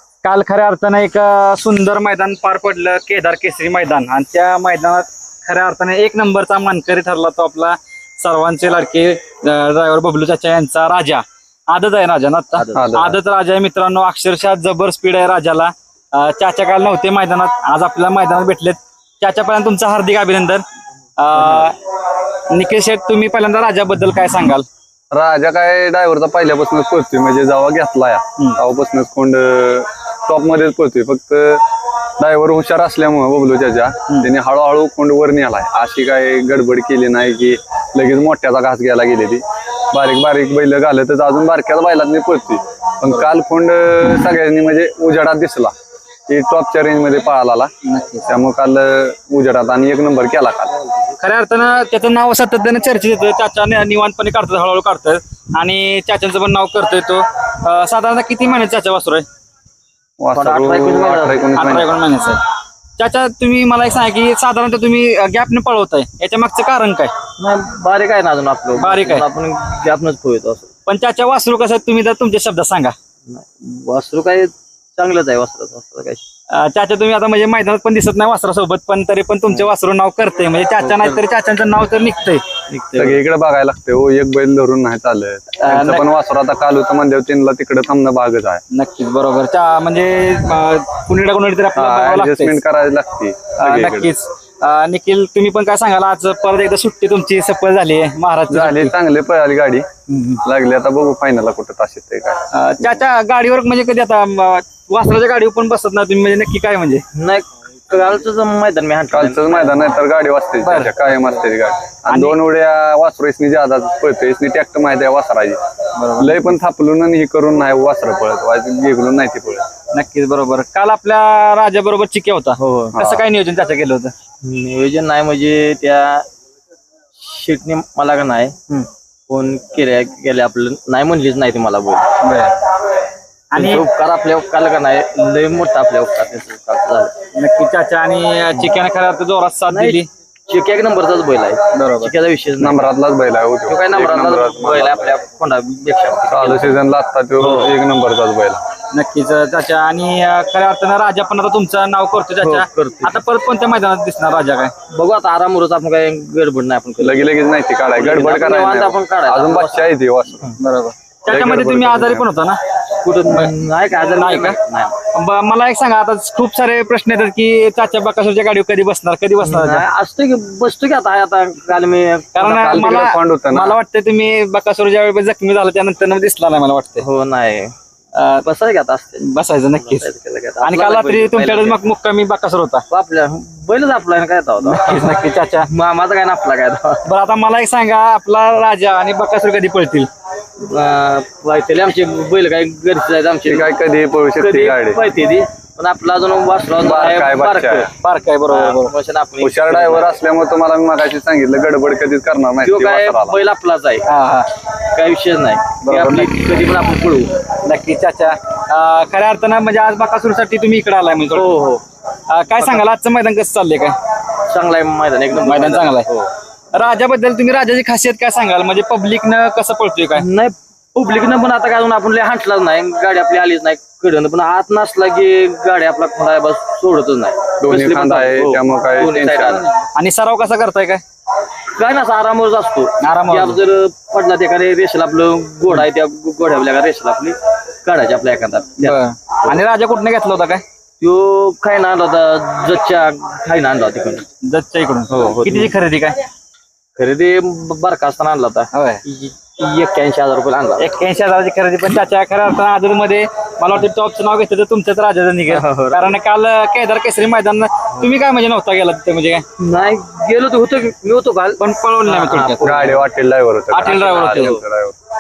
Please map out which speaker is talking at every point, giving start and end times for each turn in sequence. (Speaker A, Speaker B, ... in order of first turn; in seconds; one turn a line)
Speaker A: 0.2-20.6
Speaker B: 12.5-13.0
Speaker C: 12.8-13.2
Speaker A: 21.2-21.8
Speaker B: 21.4-21.6
Speaker A: 22.5-24.7
Speaker C: 25.1-31.6
Speaker C: 32.2-45.7
Speaker C: 46.3-47.7
Speaker A: 47.9-48.3
Speaker C: 48.3-50.8
Speaker A: 51.2-59.2
Speaker C: 60.2-61.9
Speaker B: 60.4-61.9
Speaker A: 61.6-62.4
Speaker A: 63.0-67.1
Speaker B: 67.4-70.7
Speaker A: 68.8-69.3
Speaker A: 70.9-72.9
Speaker B: 73.3-76.2
Speaker A: 76.5-82.4
Speaker B: 80.8-81.2
Speaker B: 82.7-83.2
Speaker C: 83.0-88.6
Speaker A: 85.6-86.1
Speaker A: 88.7-92.6
Speaker C: 91.8-94.1
Speaker A: 93.6-98.9
Speaker C: 98.5-99.9
Speaker A: 100.1-100.4
Speaker C: 100.4-102.4
Speaker A: 102.5-107.0
Speaker B: 107.2-110.0
Speaker C: 109.1-115.6
Speaker A: 110.6-111.0
Speaker A: 112.1-112.4
Speaker A: 116.0-116.5
Speaker C: 116.2-119.6
Speaker A: 119.9-124.1
Speaker B: 122.6-123.0
Speaker C: 123.0-123.2
Speaker B: 124.4-126.3
Speaker B: 127.2-132.1
Speaker A: 132.2-132.6
Speaker A: 133.5-133.8
Speaker B: 133.6-137.1
Speaker A: 137.3-140.1
Speaker B: 139.7-142.9
Speaker A: 141.7-142.1
Speaker C: 142.6-145.2
Speaker B: 143.7-146.8
Speaker C: 146.3-148.6
Speaker B: 147.4-147.8
Speaker A: 148.9-154.7
Speaker B: 152.4-153.2
Speaker B: 154.9-160.6
Speaker C: 157.0-160.5
Speaker A: 160.6-162.6
Speaker C: 161.3-162.3
Speaker B: 163.0-165.0
Speaker A: 163.3-164.6
Speaker A: 165.1-169.8
Speaker B: 169.4-172.8
Speaker A: 172.4-177.1
Speaker C: 172.6-173.8
Speaker B: 177.0-177.7
Speaker A: 178.1-178.4
Speaker B: 178.4-181.8
Speaker A: 179.2-180.1
Speaker A: 180.6-182.8
Speaker B: 182.9-187.0
Speaker A: 184.6-185.7
Speaker A: 187.1-190.1
Speaker B: 190.6-193.7
Speaker C: 193.5-195.0
Speaker B: 194.4-197.9
Speaker C: 196.8-197.9
Speaker A: 198.0-198.9
Speaker B: 198.5-200.2
Speaker C: 199.4-203.4
Speaker B: 202.6-204.1
Speaker A: 204.1-204.5
Speaker B: 204.9-207.3
Speaker A: 205.8-206.3
Speaker A: 207.6-211.5
Speaker B: 211.3-211.8
Speaker A: 212.3-214.0
Speaker B: 214.5-216.3
Speaker A: 215.4-216.1
Speaker A: 216.7-220.3
Speaker B: 220.2-229.7
Speaker C: 227.6-229.7
Speaker A: 229.9-231.0
Speaker B: 231.8-239.6
Speaker A: 233.0-233.6
Speaker A: 238.8-240.6
Speaker B: 241.0-244.3
Speaker A: 244.4-246.2
Speaker B: 245.1-245.7
Speaker B: 247.0-250.9
Speaker A: 248.7-249.0
Speaker A: 250.8-259.4
Speaker B: 255.5-256.2
Speaker B: 259.6-263.1
Speaker A: 261.6-262.8
Speaker C: 262.6-264.9
Speaker A: 263.7-264.6
Speaker B: 263.9-264.6